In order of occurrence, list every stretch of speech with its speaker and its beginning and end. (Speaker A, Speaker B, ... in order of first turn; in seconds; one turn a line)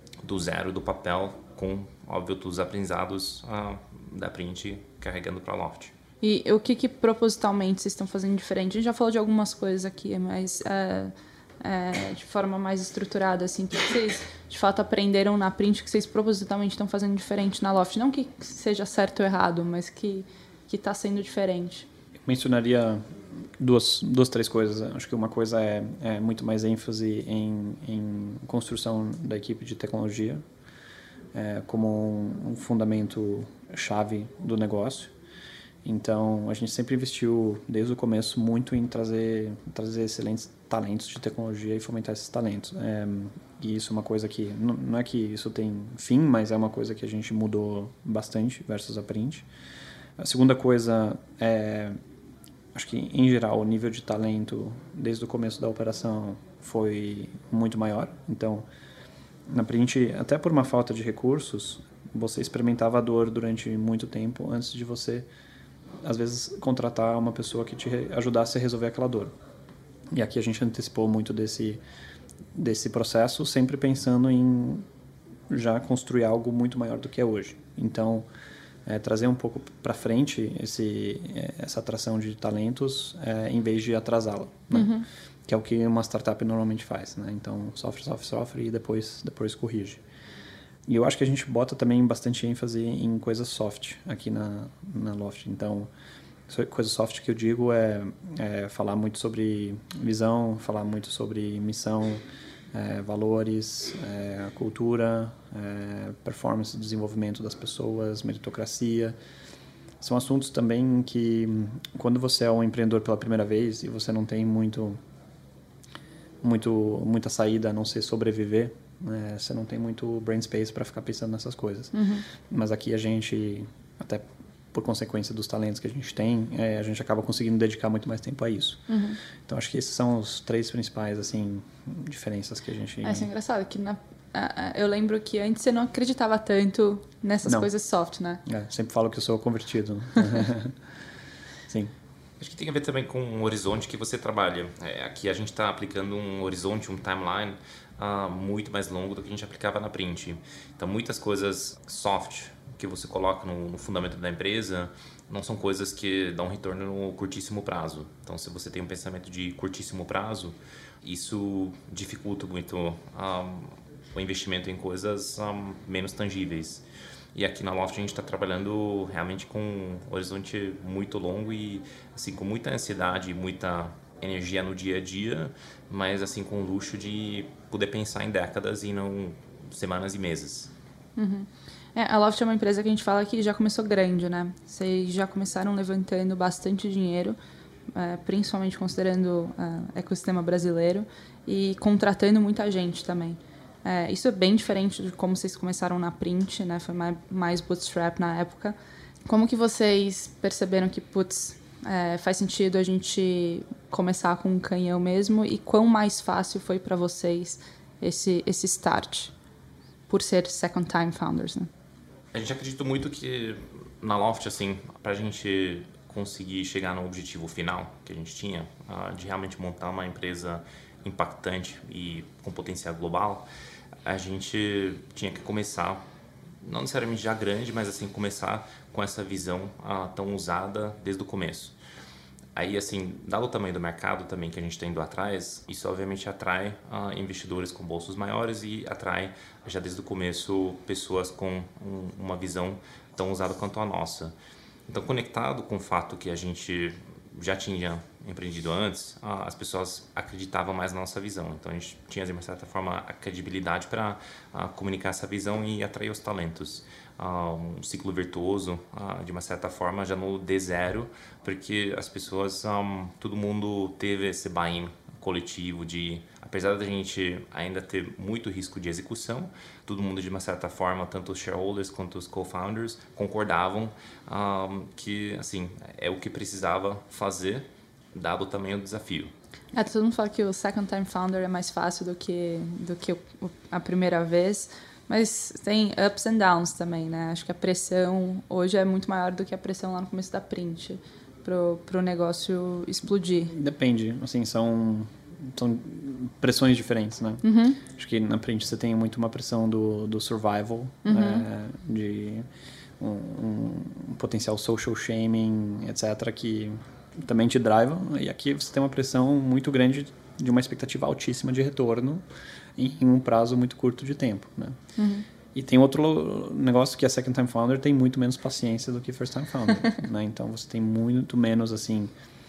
Speaker A: 0.2-5.9
Speaker B: 6.2-21.9
Speaker C: 22.2-23.0
Speaker C: 23.6-30.4
Speaker C: 31.3-35.1
Speaker C: 35.8-49.5
Speaker C: 50.2-52.0
Speaker C: 52.7-58.6
Speaker C: 59.5-65.2
Speaker C: 66.0-69.3
Speaker C: 70.1-71.8
Speaker C: 72.5-74.8
Speaker C: 75.5-78.2
Speaker C: 78.8-84.9
Speaker B: 84.7-85.0
Speaker C: 85.5-90.0
Speaker C: 90.9-95.9
Speaker C: 96.5-109.2
Speaker C: 110.0-115.0
Speaker C: 116.4-121.9
Speaker B: 121.9-122.2
Speaker C: 122.5-128.8
Speaker B: 128.9-129.2
Speaker C: 129.5-133.3
Speaker B: 133.0-138.4
Speaker C: 137.4-137.7
Speaker C: 138.4-140.7
Speaker A: 142.4-180.7
Speaker B: 181.2-187.4
Speaker B: 187.9-198.8
Speaker B: 199.3-209.3
Speaker B: 210.1-211.7
Speaker A: 212.3-223.5
Speaker A: 224.1-226.0
Speaker A: 226.6-231.7
Speaker A: 232.6-244.3
Speaker A: 244.9-279.3
Speaker B: 279.7-293.5
Speaker C: 293.5-302.4
Speaker B: 297.4-297.8
Speaker B: 301.0-301.4
Speaker C: 303.0-312.2
Speaker C: 312.8-314.8
Speaker B: 315.0-315.2
Speaker C: 315.5-322.1